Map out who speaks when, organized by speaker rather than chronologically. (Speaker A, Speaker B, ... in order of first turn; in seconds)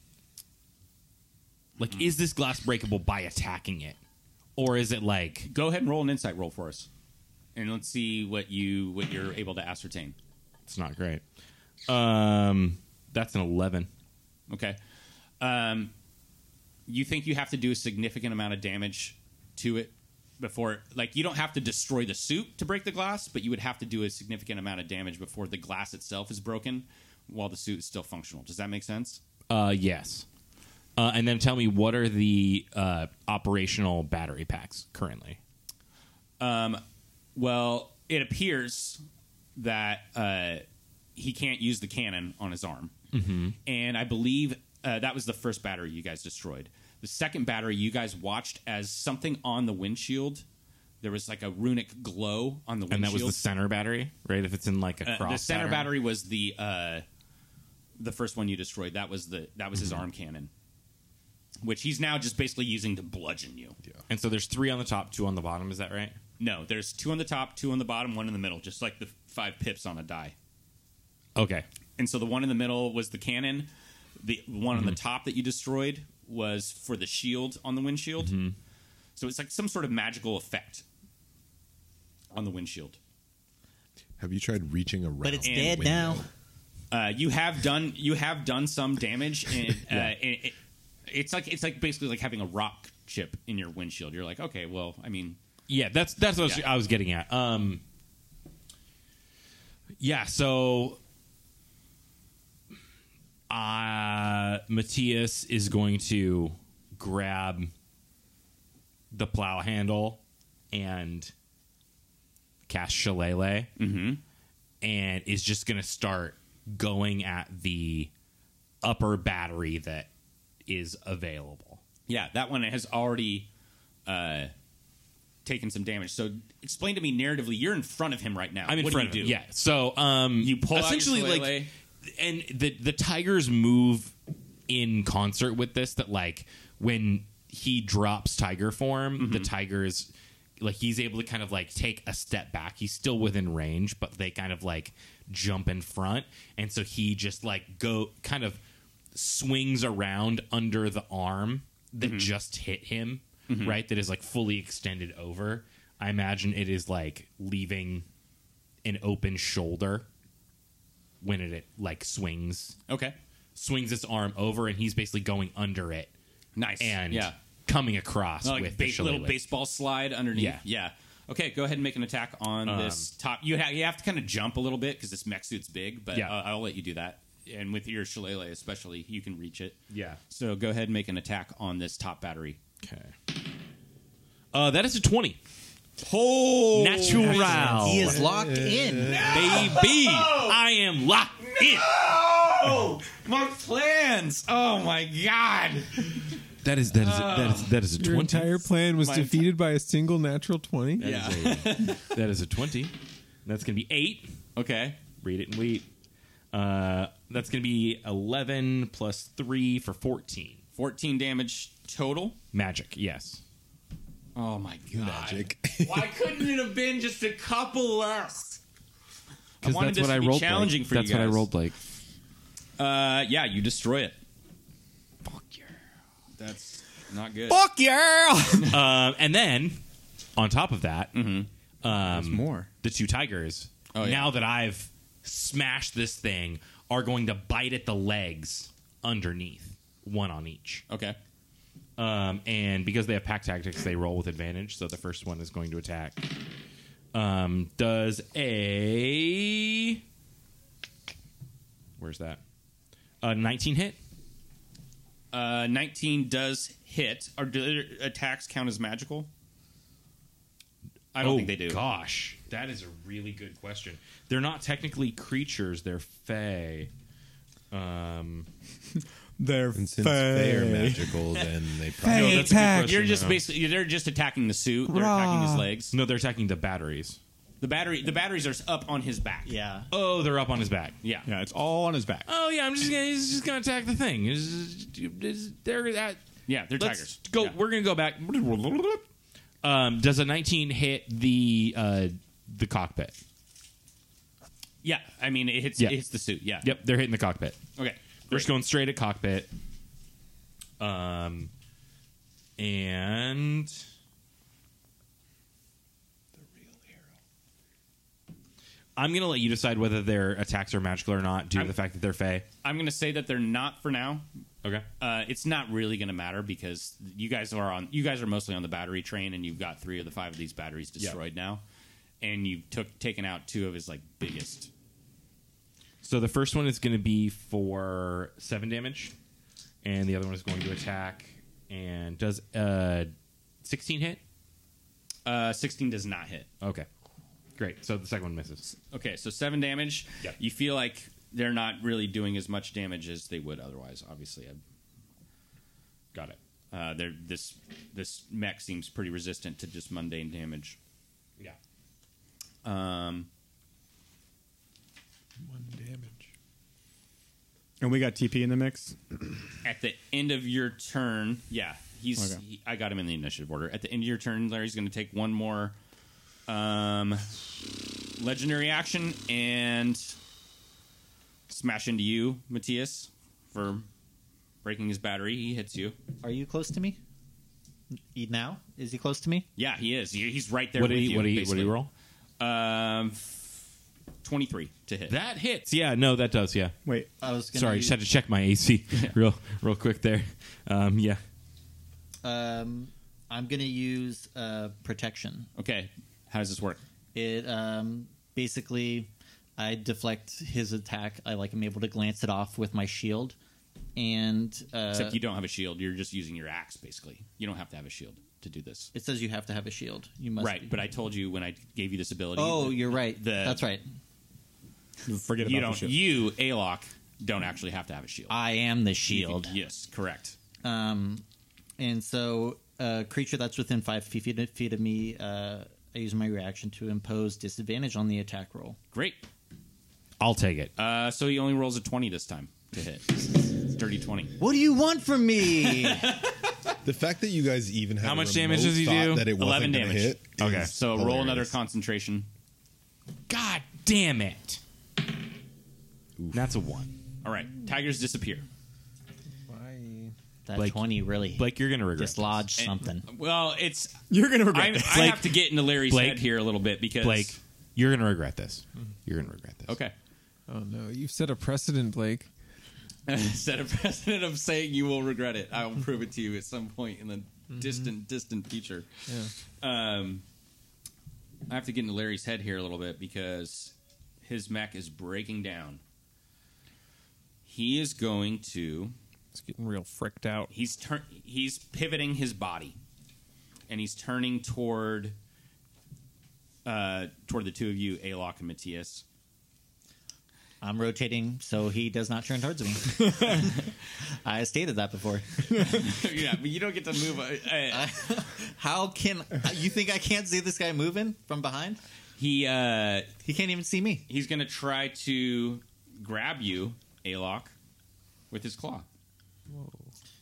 Speaker A: 1.8-4.0, 4.6-5.5, 10.7-11.2, 11.9-13.9, 29.5-30.2, 31.0-35.4, 43.1-43.5, 52.9-55.9, 64.1-66.2, 71.3-71.6, 78.2-78.5, 95.7-97.8, 100.0-101.0, 103.5-107.7, 109.1-110.2, 110.7-111.3, 112.7-113.7, 114.8-118.1, 118.8-120.1, 120.7-121.8, 128.7-134.1, 134.7-148.6, 149.1-158.1, 158.8-160.1, 161.2-162.8, 163.6-166.1, 166.8-169.4, 170.3-170.6, 172.7-173.1, 179.9-180.2, 182.8-183.1, 184.5-185.4, 186.7-188.2, 189.3-191.9, 196.6-198.7, 201.0-204.3, 205.2-205.8, 206.5-210.6, 212.5-213.4, 215.8-218.6, 219.6-221.8, 225.2-225.7, 227.5-229.8, 230.3-231.2, 231.8-240.8, 242.0-246.3, 247.1-250.0, 252.0-252.4, 253.2-254.0, 261.2-266.9, 267.7-268.5, 272.1-273.4, 275.9-277.2, 279.9-281.0, 282.3-286.2, 286.8-289.0, 289.6-293.1, 296.6-297.6, 298.3-299.5, 300.8-301.5, 302.6-303.8, 308.9-312.4, 326.0-329.1, 329.8-333.1, 333.6-334.2, 336.6-336.9, 337.6-338.6, 380.8-381.9, 385.1-386.7, 387.5-391.2, 430.2-430.7, 438.0-439.3, 440.4-440.7, 443.3-444.6, 446.3-446.9, 450.5-452.4, 454.9-456.3, 457.0-459.8
Speaker B: 5.5-6.9, 7.5-10.1, 14.5-14.8, 15.4-15.9, 16.9-29.2, 36.4-36.8, 37.3-39.0, 39.5-40.6, 41.1-42.9, 43.6-50.4, 51.0-53.4, 55.0-57.0, 58.0-60.5, 61.6-63.8, 66.4-70.3, 72.0-78.3, 79.2-80.8, 82.3-83.0, 85.4-85.8, 86.9-90.5, 91.1-95.4, 113.8-114.2, 122.1-123.5, 124.0-124.5, 125.4-129.4, 130.4-131.7, 139.2-139.5, 152.0-152.3, 153.5-153.8, 162.9-163.2, 166.6-167.3, 168.4-182.6, 186.0-187.9, 189.1-190.6, 191.5-196.3, 196.9-197.7, 199.0-199.4, 201.0-202.1, 204.6-205.0, 210.8-212.4, 214.3-215.4, 216.1-217.4, 219.6-221.5, 222.8-224.2, 226.4-227.6, 231.1-231.5, 233.9-234.3, 240.9-241.2, 255.3-259.3, 261.1-261.8, 272.1-275.9, 277.6-279.5, 286.5-287.5, 294.8-296.8, 297.8-298.5, 312.6-314.2, 315.0-321.6, 322.2-324.7, 335.2-336.5, 338.7-344.6, 346.7-350.8, 352.6-353.3, 359.6-365.8, 366.5-367.3, 368.2-370.1, 371.5-373.9, 374.6-375.9, 379.6-381.8, 382.4-383.4, 384.2-385.1, 395.6-396.8, 404.9-408.9, 410.4-413.6, 415.4-418.3, 419.1-420.4, 428.9-429.2, 430.8-434.4, 435.7-436.3, 439.4-442.3, 447.2-448.5, 452.6-457.4, 459.7-459.9, 463.1-469.1, 469.6-470.2, 471.5-475.8, 477.4-478.9, 480.5-482.8, 483.7-485.1, 486.6-489.0, 495.6-497.9, 502.2-503.1, 504.1-507.5, 508.3-508.9
Speaker C: 84.2-86.3, 188.2-189.5, 214.9-216.1, 269.7-272.5, 436.8-441.6, 446.2-446.5
Speaker D: 85.2-86.2, 187.8-189.3, 279.4-279.9, 376.2-377.0, 378.1-379.5, 387.2-388.0, 392.2-395.5, 397.1-403.4, 403.9-405.2, 408.9-410.7, 412.4-413.8, 418.3-419.5, 420.6-421.2, 421.8-428.8, 434.4-436.2, 450.4-453.1, 490.6-495.7, 497.7-501.8, 503.2-504.1
Speaker E: 187.2-188.1, 198.0-201.5, 272.0-273.1, 274.9-275.7, 355.4-356.2, 449.4-450.1, 460.5-462.3, 469.1-469.3, 479.3-480.5
Speaker F: 232.0-232.7, 269.4-271.2, 281.2-282.3, 357.8-359.0, 415.1-416.0, 454.1-455.3, 495.5-495.8